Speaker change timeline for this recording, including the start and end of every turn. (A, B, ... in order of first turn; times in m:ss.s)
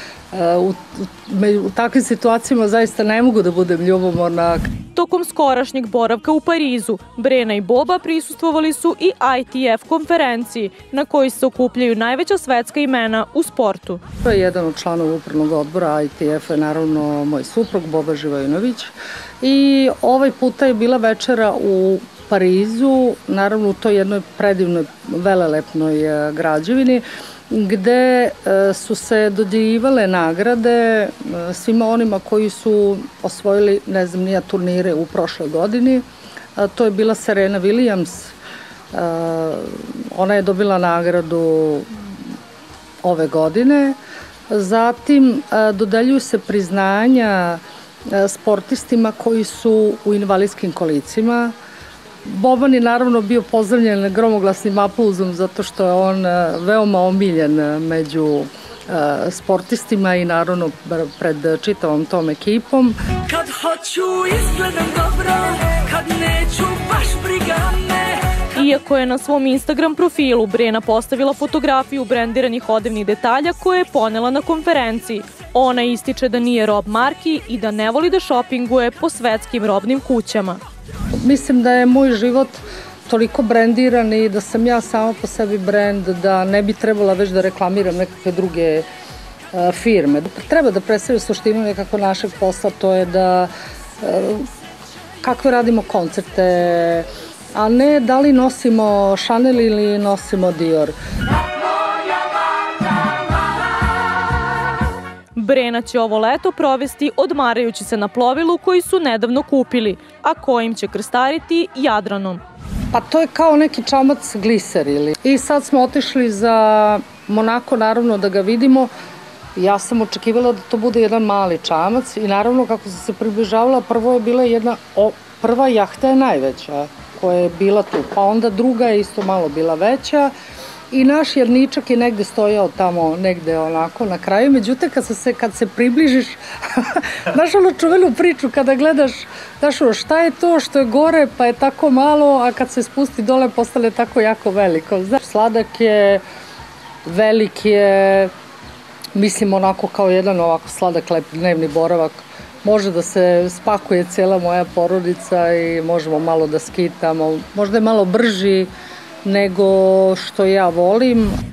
0:00.3-0:04.7 A
0:05.0-0:14.0 B
0:14.2-0:36.0 A
0:36.6-0:38.4 A
0:38.9-0:41.9 A
0:43.0-0:44.0 A
0:44.5-0:51.5 A
0:52.2-1:03.0 A
1:03.3-1:08.5 C
1:08.6-1:20.6 B
1:21.2-1:28.9 A
1:29.5-1:34.5 A
1:35.2-1:41.0 A
1:45.4-1:52.4 B
1:52.9-1:58.9 A
1:59.6-2:10.3 A
2:10.9-2:26.2 A
2:27.0-2:28.3 A
2:29.2-2:38.7 A
2:39.2-2:41.4 A